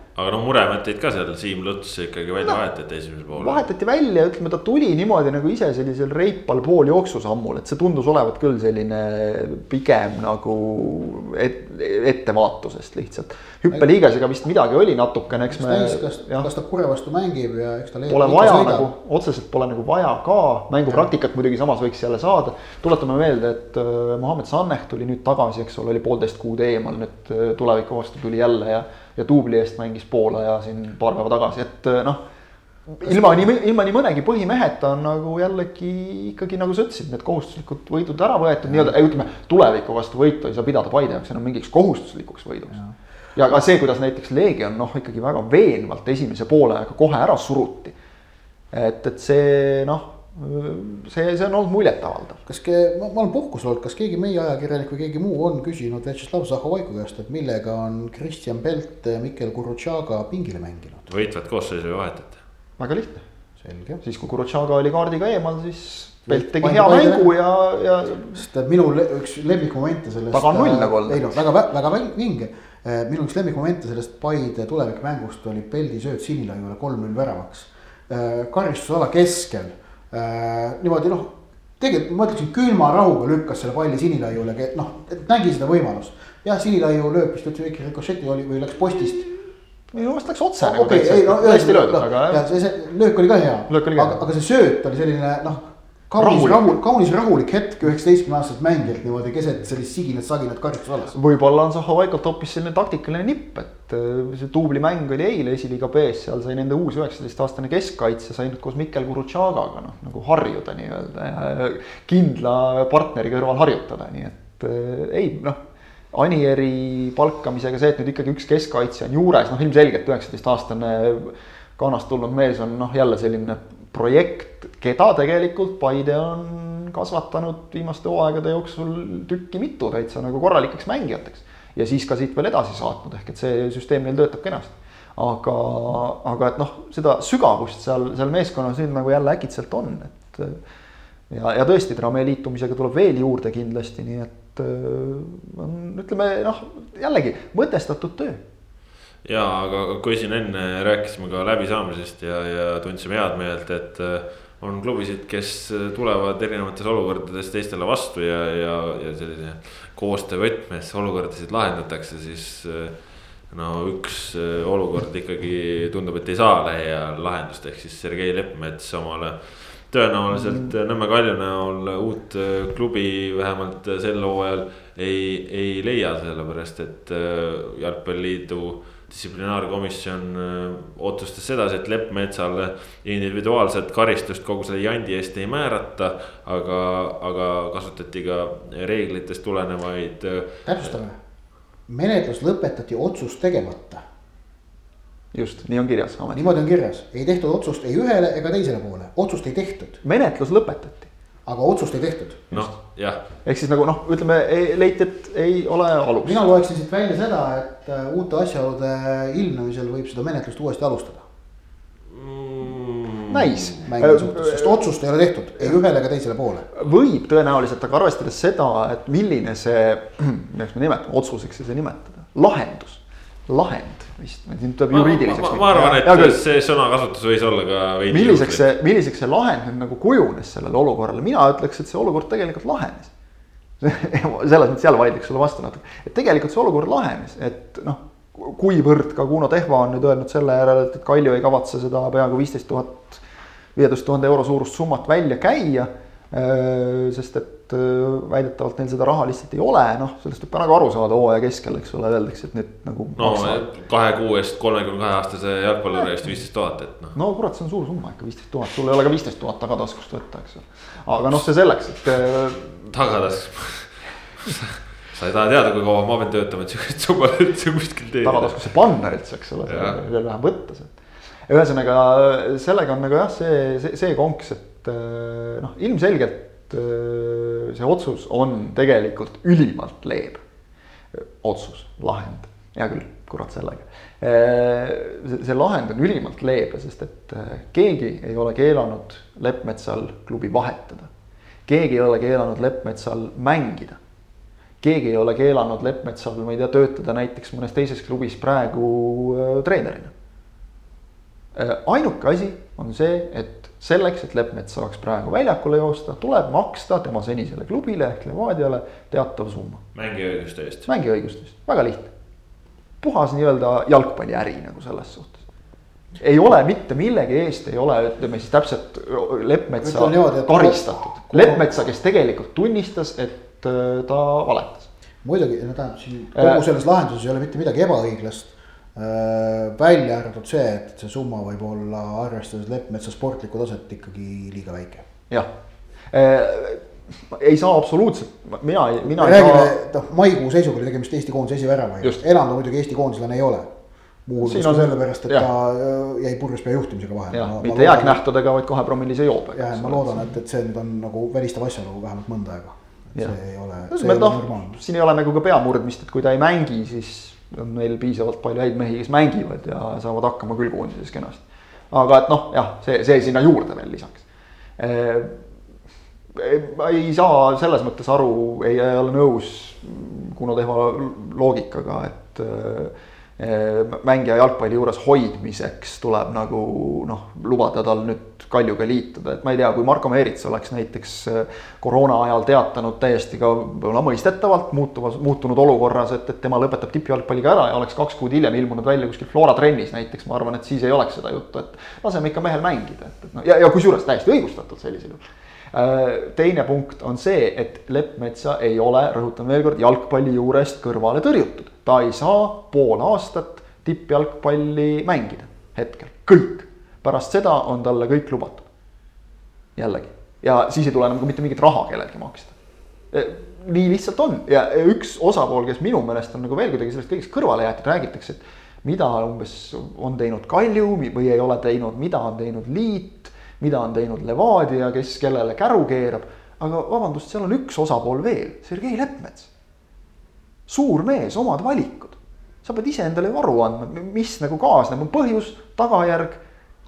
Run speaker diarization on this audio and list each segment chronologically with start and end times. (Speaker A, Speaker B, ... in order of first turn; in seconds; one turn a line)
Speaker A: 0.1-3.6
Speaker B: 3.3-16.5
Speaker C: 15.5-18.9
Speaker B: 18.1-32.2
Speaker B: 32.9-42.8
Speaker C: 33.0-33.4
Speaker C: 38.7-38.9
Speaker B: 43.4-48.0
Speaker B: 48.7-52.4
Speaker C: 52.5-61.0
Speaker A: 61.1-62.4
Speaker B: 62.8-63.2
Speaker C: 63.6-64.0
Speaker B: 64.0-68.4
Speaker C: 66.3-67.3
Speaker C: 68.3-89.3
Speaker B: 70.3-71.3
Speaker B: 89.9-92.4
Speaker C: 90.6-101.1
Speaker B: 93.7-94.2
Speaker B: 96.2-96.7
Speaker B: 101.1-115.6
Speaker B: 116.1-140.6
Speaker B: 141.3-148.4
Speaker A: 149.2-190.9
Speaker C: 190.7-191.2
Speaker C: 191.9-194.0
Speaker B: 195.3-196.6
Speaker C: 196.3-200.0
Speaker B: 200.0-201.1
Speaker C: 201.4-202.7
Speaker A: 202.5-203.2
Speaker B: 203.4-206.4
Speaker C: 206.2-211.2
Speaker A: 212.1-213.7
Speaker B: 213.3-214.8
Speaker C: 213.8-216.7
Speaker B: 216.7-226.4
Speaker A: 224.9-228.6
Speaker B: 228.1-233.1
Speaker B: 233.8-243.2
Speaker B: 243.7-253.6
Speaker A: 253.2-257.1
Speaker B: 257.1-262.9
Speaker A: 262.9-268.6
Speaker B: 268.2-270.9
Speaker A: 269.7-270.0
Speaker B: 271.5-280.4
Speaker B: 281.1-291.1
Speaker B: 291.7-294.0
Speaker B: 294.8-300.1
Speaker B: 301.6-309.8
Speaker A: 309.9-310.9
Speaker B: 310.9-312.1
Speaker B: 313.0-315.4
Speaker B: 316.2-324.9
Speaker C: 319.8-321.7
Speaker C: 325.2-335.1
Speaker B: 326.3-326.6
Speaker B: 336.1-339.7
Speaker C: 339.1-343.7
Speaker C: 344.3-348.2
Speaker B: 344.4-345.5
Speaker B: 347.3-350.3
Speaker C: 349.5-354.8
Speaker B: 353.9-364.2
Speaker B: 364.8-365.4
Speaker B: 366.3-408.6
Speaker B: 409.8-412.5
Speaker B: 413.1-429.5
Speaker B: 430.7-436.4